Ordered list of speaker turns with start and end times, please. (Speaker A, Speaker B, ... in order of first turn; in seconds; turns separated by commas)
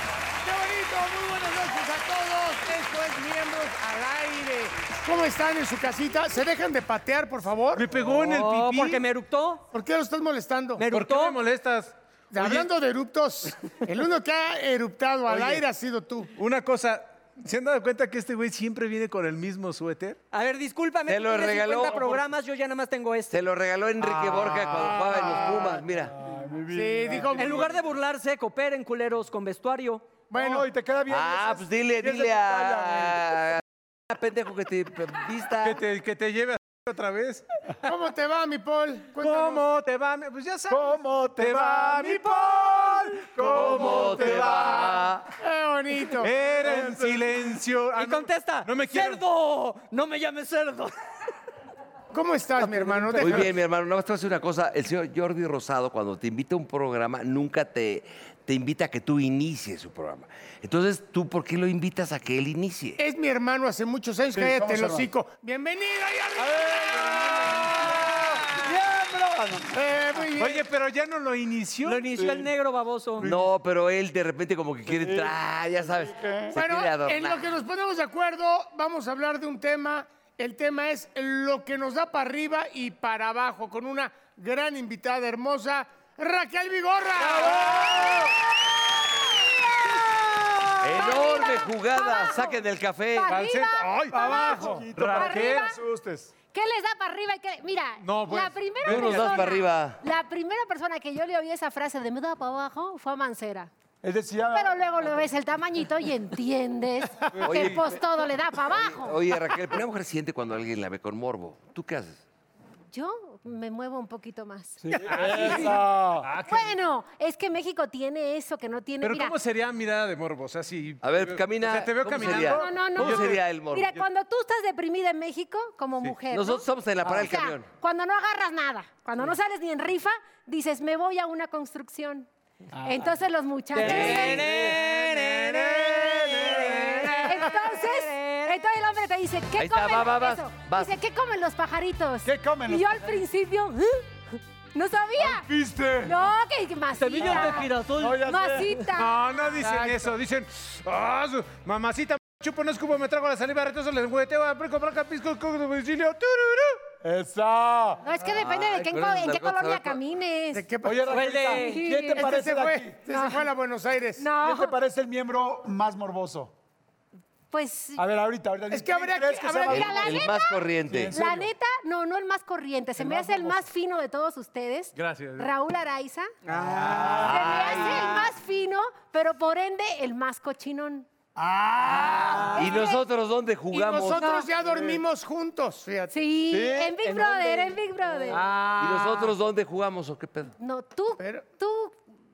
Speaker A: 0.4-7.9, Speaker B: 7.7-9.0, Speaker C: 8.0-9.6, Speaker A: 9.7-10.8, Speaker C: 10.8-11.4, Speaker B: 10.9-12.7, Speaker A: 12.3-16.3, Speaker B: 15.3-15.6, Speaker B: 16.4-20.2, Speaker C: 20.3-23.4, Speaker D: 21.1-22.1, Speaker E: 21.9-22.2, Speaker D: 23.3-26.1, Speaker B: 24.0-25.2, Speaker A: 24.9-25.8, Speaker E: 25.3-27.6, Speaker A: 26.7-27.8, Speaker C: 27.4-30.1, Speaker A: 30.3-30.7, Speaker E: 30.3-33.5, Speaker D: 31.1-35.8, Speaker B: 35.6-37.4, Speaker A: 37.8-39.7, Speaker B: 39.1-45.1, Speaker E: 40.7-44.9, Speaker D: 43.5-45.3, Speaker A: 45.4-46.3, Speaker B: 46.2-49.2, Speaker E: 46.7-46.9, Speaker C: 48.0-51.0, Speaker A: 52.1-53.5, Speaker E: 52.6-53.5, Speaker D: 53.2-63.0, Speaker A: 63.0-68.7, Speaker E: 64.3-65.1, Speaker E: 66.4-70.3, Speaker A: 69.7-70.6, Speaker B: 70.4-72.1, Speaker C: 71.9-73.2, Speaker E: 72.2-72.5, Speaker D: 73.2-77.5, Speaker E: 74.9-75.3, Speaker E: 75.9-76.6, Speaker A: 76.5-88.4, Speaker E: 87.2-88.3, Speaker F: 89.8-92.6, Speaker D: 90.8-93.4, Speaker F: 93.1-95.8, Speaker B: 93.3-95.7, Speaker E: 94.1-96.3, Speaker F: 96.5-103.7, Speaker B: 98.0-99.5, Speaker D: 98.8-100.0, Speaker E: 104.0-104.8, Speaker F: 104.5-109.2, Speaker E: 107.4-107.8, Speaker D: 107.4-112.2, Speaker F: 112.9-115.7, Speaker B: 114.9-116.7, Speaker E: 115.0-116.3, Speaker F: 116.4-119.3, Speaker B: 119.0-123.5, Speaker D: 121.0-124.0, Speaker F: 122.3-132.3, Speaker D: 126.3-127.7, Speaker E: 132.7-133.2, Speaker F: 132.8-134.5, Speaker C: 133.8-138.7, Speaker D: 133.8-134.7, Speaker E: 133.9-135.3, Speaker B: 133.9-137.5, Speaker E: 136.0-137.2, Speaker F: 137.2-145.5, Speaker D: 139.6-140.9, Speaker E: 142.2-143.1, Speaker E: 145.2-146.2, Speaker F: 146.0-147.7, Speaker C: 147.0-148.7, Speaker E: 147.2-148.7, Speaker F: 148.3-149.6, Speaker B: 148.9-156.8, Speaker A: 149.6-150.1, Speaker E: 157.0-158.0, Speaker F: 158.0-160.7, Speaker D: 158.3-160.0, Speaker A: 160.5-161.5, Speaker E: 160.8-163.0, Speaker C: 161.1-162.0, Speaker F: 161.6-162.3, Speaker A: 162.2-164.3, Speaker F: 163.1-163.5, Speaker F: 164.2-164.8, Speaker E: 164.4-166.5, Speaker F: 167.5-168.1, Speaker E: 168.0-170.2, Speaker A: 168.7-170.0, Speaker D: 169.7-171.2, Speaker F: 169.7-176.3, Speaker E: 170.9-171.5, Speaker E: 173.0-173.6, Speaker B: 174.9-175.5, Speaker E: 176.5-178.2, Speaker B: 176.6-177.5, Speaker C: 176.7-178.0, Speaker D: 177.2-178.2, Speaker F: 177.2-181.1, Speaker E: 181.4-182.7, Speaker A: 182.0-182.4, Speaker C: 182.1-182.6, Speaker D: 182.5-184.3, Speaker F: 182.6-183.0, Speaker A: 183.7-186.3, Speaker F: 184.2-184.5, Speaker E: 184.6-185.0, Speaker F: 186.1-188.4, Speaker C: 186.5-188.5, Speaker B: 188.3-189.3, Speaker D: 188.8-190.5, Speaker F: 190.6-192.0, Speaker A: 191.2-191.4